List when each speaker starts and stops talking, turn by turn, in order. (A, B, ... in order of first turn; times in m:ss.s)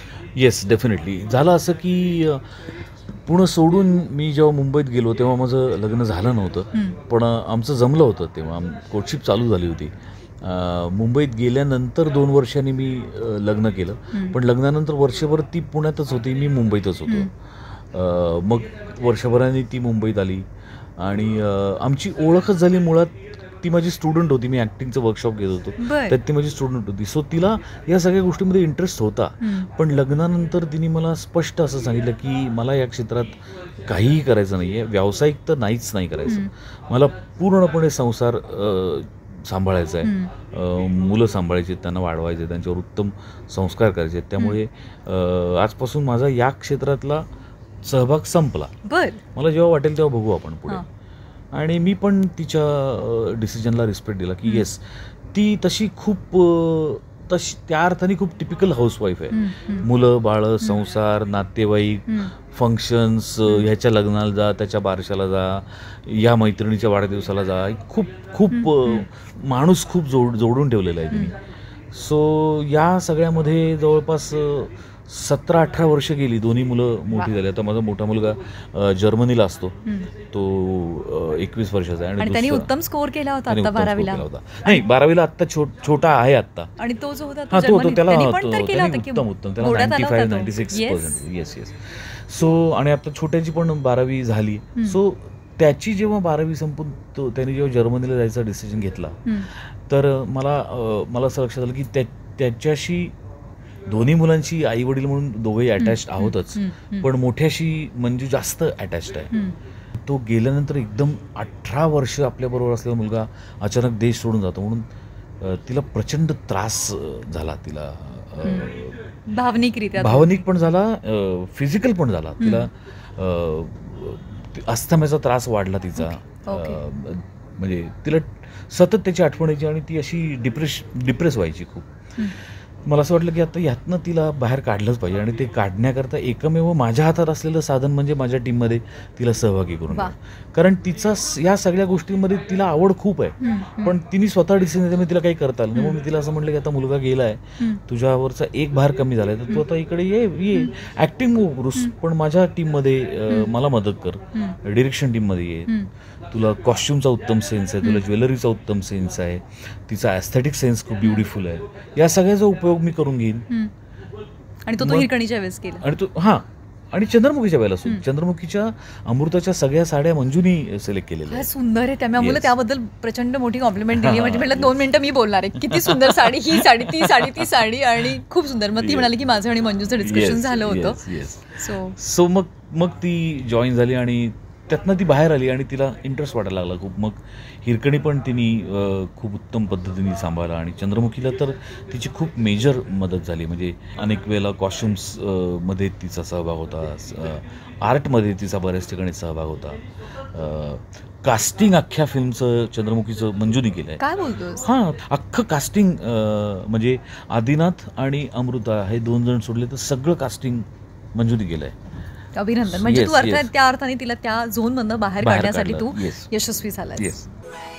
0:00.4-0:20.4 A
0:06.7-0:07.0 B
0:21.0-0:47.2 A
0:25.8-0:26.2 B
0:29.4-0:29.7 B
0:40.0-0:40.3 B
0:47.8-0:48.7 A
0:48.8-0:49.2 B
0:49.3-0:50.8 A
0:51.5-1:11.4 A
0:59.3-0:59.9 B
1:08.5-1:09.1 B
1:11.9-1:19.8 A
1:19.8-1:20.1 B
1:20.3-1:22.7 A
1:22.2-1:24.8 B
1:23.5-1:26.7 A
1:26.8-1:31.2 B
1:27.5-1:43.1 A
1:43.8-1:49.3 A
1:45.8-1:47.1 B
1:49.3-1:49.6 B
1:49.9-1:54.8 A
1:55.4-1:59.1 A
1:58.4-1:58.7 B
1:59.3-2:00.4 B
2:00.0-2:35.7 A
2:02.4-2:02.7 B
2:06.0-2:06.8 B
2:23.4-2:24.0 B
2:25.7-2:26.0 B
2:36.3-2:43.4 A
2:41.0-2:41.3 B
2:44.6-2:45.8 B
2:44.8-2:45.1 A
2:45.8-2:51.5 A
2:51.3-3:02.0 B
2:52.2-2:52.5 A
2:53.9-2:54.9 A
2:55.6-2:57.7 A
2:58.8-2:59.2 A
3:00.0-3:24.0 A
3:24.0-3:24.7 B
3:24.6-3:31.8 A
3:32.3-3:37.2 B
3:32.6-3:33.5 A
3:35.2-3:36.3 A
3:37.0-3:37.2 A